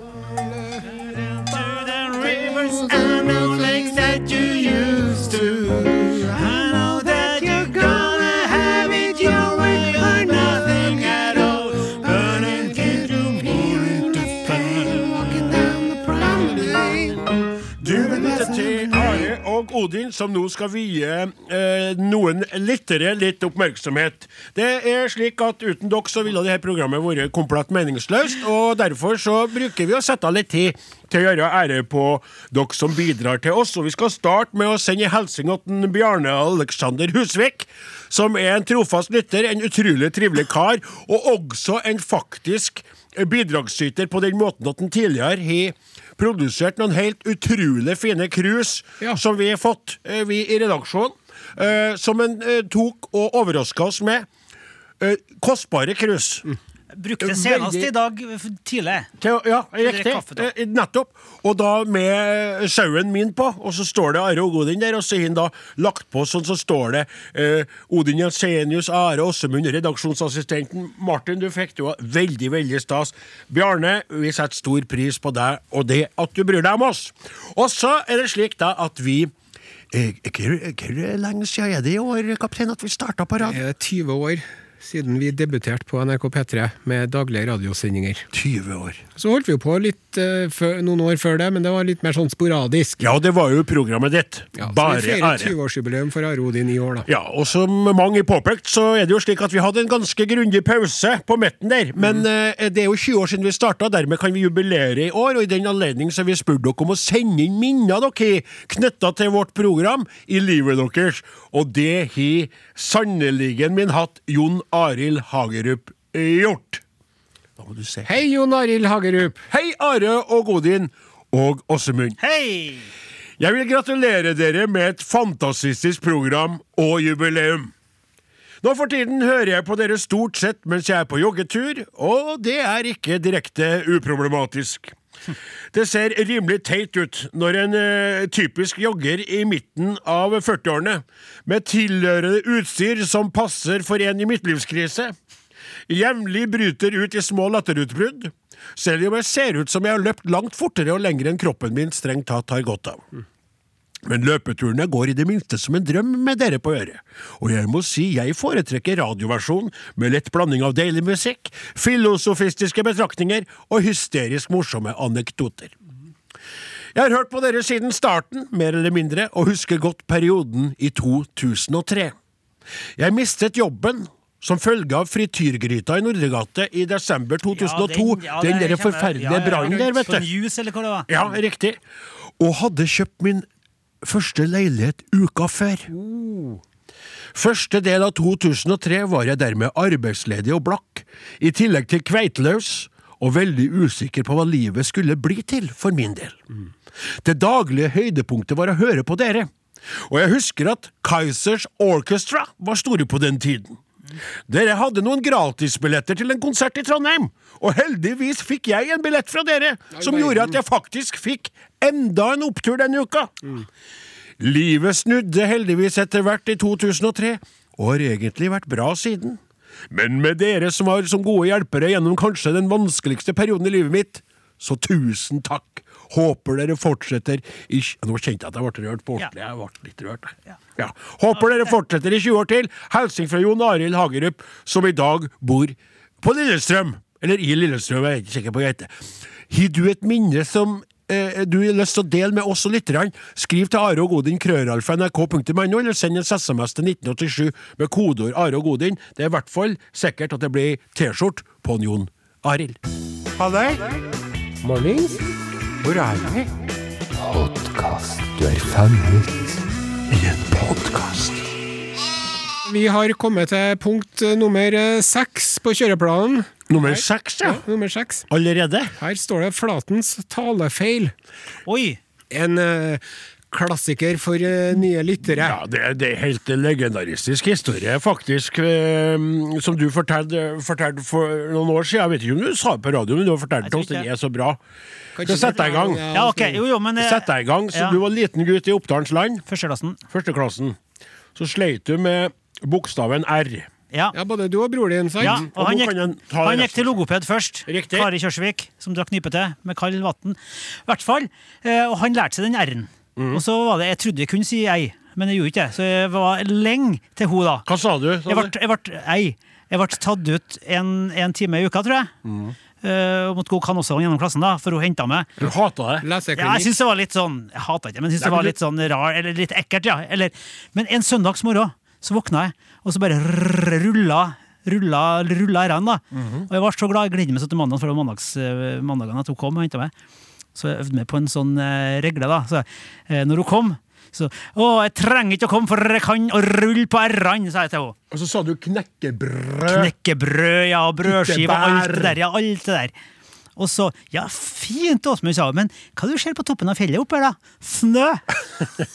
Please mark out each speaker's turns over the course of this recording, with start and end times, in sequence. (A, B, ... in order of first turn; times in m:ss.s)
0:01.0-0:04.6 A
0:02.2-0:06.4 B
0:06.3-0:13.6 A
0:12.0-0:15.0 B
0:14.5-0:17.3 C
0:17.8-0:54.3 B
0:17.8-0:19.0 C
0:55.0-0:56.5 B
0:56.9-0:59.1 A
0:57.2-0:57.9 B
0:59.2-1:19.3 B
0:59.8-1:00.5 A
1:19.9-1:23.6 B
1:23.4-1:28.2 C
1:28.3-1:29.0 B
1:29.2-1:33.0 C
1:33.0-1:35.5 B
1:34.6-1:37.1 C
1:37.1-1:56.8 B
1:57.6-1:58.1 B
1:58.0-1:59.4 C
1:59.5-2:02.2 B
2:02.2-2:02.9 A
2:03.4-2:07.7 B
2:08.6-2:15.0 B
2:15.7-2:25.1 B
2:25.9-2:33.0 B
2:34.0-2:45.7 B
2:46.9-2:52.1 B
2:53.0-3:00.3 B
2:57.5-3:01.2 A
3:01.1-3:01.8 B
3:02.4-3:03.4 B
3:04.0-3:05.9 B
3:05.9-3:06.6 C
3:07.3-3:16.4 B
3:17.2-3:19.5 B
3:20.1-3:23.8 B
3:24.5-3:33.4 B
3:29.9-3:30.6 C
3:34.4-3:39.4 B
3:39.9-3:58.9 B
3:59.5-4:12.8 B
4:13.4-4:13.9 B
4:14.6-4:15.2 C
4:15.8-4:16.5 B
4:17.3-4:19.2 B
4:20.1-4:21.5 B
4:22.6-4:28.3 C
4:26.7-4:27.6 B
4:28.3-4:28.9 B
4:29.0-4:31.1 C
4:31.7-4:32.0 A
4:32.3-4:35.6 C
4:35.4-4:44.6 B
4:43.6-4:44.0 A
4:45.2-4:46.6 C
4:45.2-4:46.0 B
4:46.1-4:48.0 A
4:47.0-4:49.4 B
4:49.5-4:50.0 A
4:50.1-4:50.8 B
4:51.3-4:53.7 B
4:54.1-4:55.4 C
4:55.2-5:07.6 A
4:55.2-4:57.0 B
4:57.7-4:58.1 B
5:03.2-5:03.4 B
5:07.6-5:08.5 B
5:08.3-5:12.1 A
5:12.2-5:12.5 B
5:12.8-5:15.3 A
5:15.4-5:16.0 B
5:16.0-5:16.8 C
5:16.3-5:29.9 A
5:18.2-5:18.5 B
5:26.2-5:26.4 B
5:30.5-5:38.0 A
5:38.1-5:39.9 B
5:39.7-5:42.9 A
5:41.0-5:42.2 B
5:43.6-5:48.4 A